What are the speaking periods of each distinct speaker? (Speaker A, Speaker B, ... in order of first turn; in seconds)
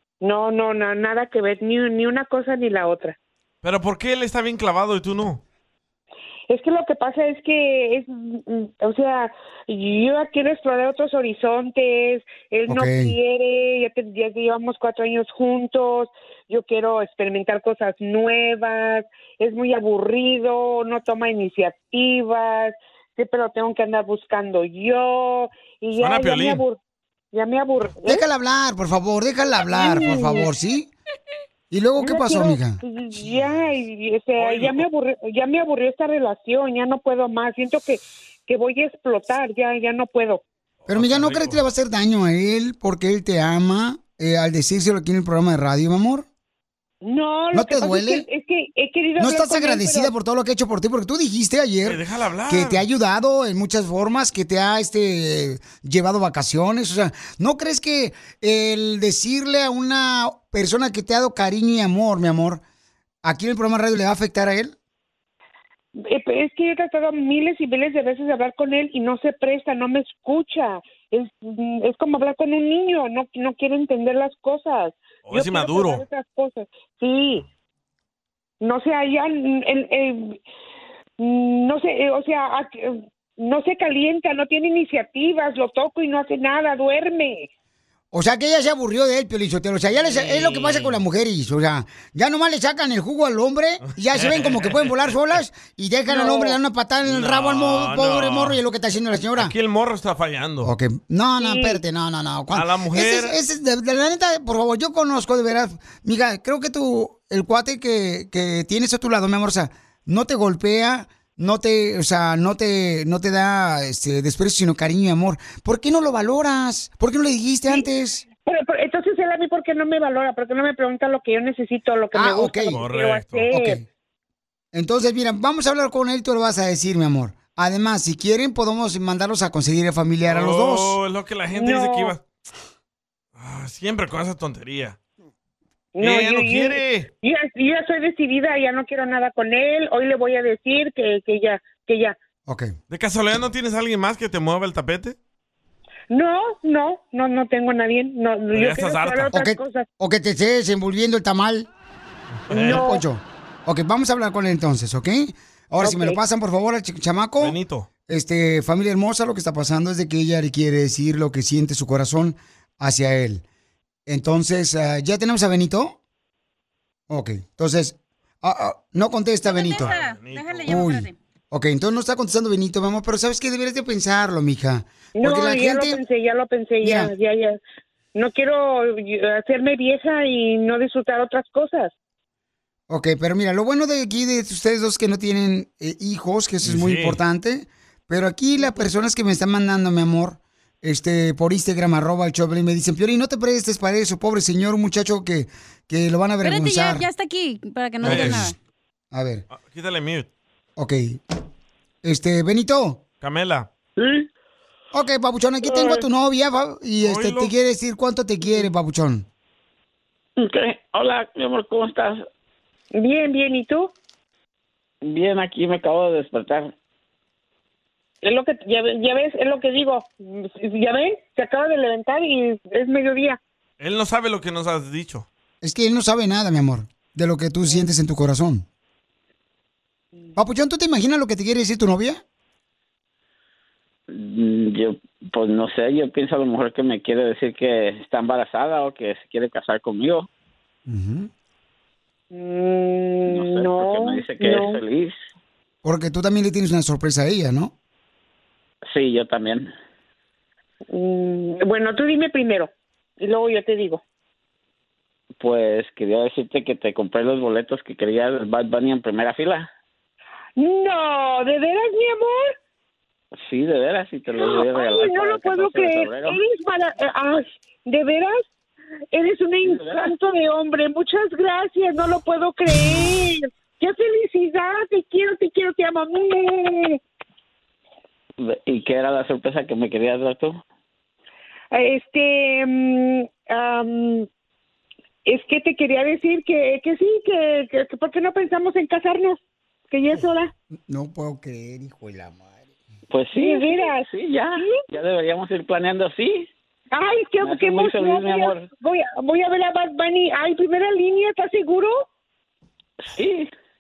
Speaker A: 0.2-3.2, 6.5-26.8, 27.3-28.2, 29.7-30.5, 32.0-40.4, 47.0-50.1, 66.0-77.5, 78.6-80.4, 81.2-87.5, 96.1-96.6, 101.4-101.8, 118.5-123.8, 131.6-132.1, 136.0-142.2, 146.1-149.9, 152.5-153.0, 155.8-156.2, 175.2-177.6, 178.2-181.9, 212.9-213.9, 218.2-223.4, 242.3-244.8, 250.9-254.0, 260.6-262.5, 264.4-268.5, 269.1-277.0, 281.7-284.3, 285.3-289.4, 289.9-290.5, 293.4-294.0, 296.9-302.0
Speaker B: 3.6-5.4, 26.0-26.6, 34.4-34.9, 40.9-41.6, 51.8-52.9, 75.2-76.0, 90.0-91.0, 93.8-95.2, 97.0-98.6, 99.4-100.7, 102.5-103.4, 122.7-123.5, 130.3-132.2, 133.4-135.0, 136.0-137.1, 142.9-145.2, 148.5-149.4, 152.5-152.8, 157.4-157.9, 169.7-170.8, 186.6-187.2, 198.0-198.5, 199.5-200.3, 203.2-203.7, 207.0-207.5, 223.8-225.3
Speaker C: 12.7-13.1, 28.0-30.9, 31.7-32.8, 40.9-46.3, 47.5-48.2, 49.2-62.6, 63.2-64.8, 88.1-99.5, 100.6-118.2, 122.1-122.8, 123.5-123.9, 124.7-131.0, 142.5-142.7, 149.3-151.7, 152.5-157.6, 158.1-163.4, 164.1-166.0, 167.1-169.9, 170.7-176.0, 176.8-177.1, 182.9-197.1, 198.0-198.5, 199.1-199.4, 200.8-201.2, 202.0-203.0, 204.9-209.3, 225.6-228.7, 230.4-232.2, 240.9-241.3, 245.8-247.7, 290.9-292.5
Speaker D: 169.4-171.2, 196.4-198.6
Speaker E: 210.4-212.2, 215.0-216.7, 234.1-240.3, 243.3-245.2, 248.9-249.7, 255.4-259.7, 263.5-266.4, 269.6-270.2, 278.4-280.6, 293.1-296.5, 297.4-298.7, 303.1-303.5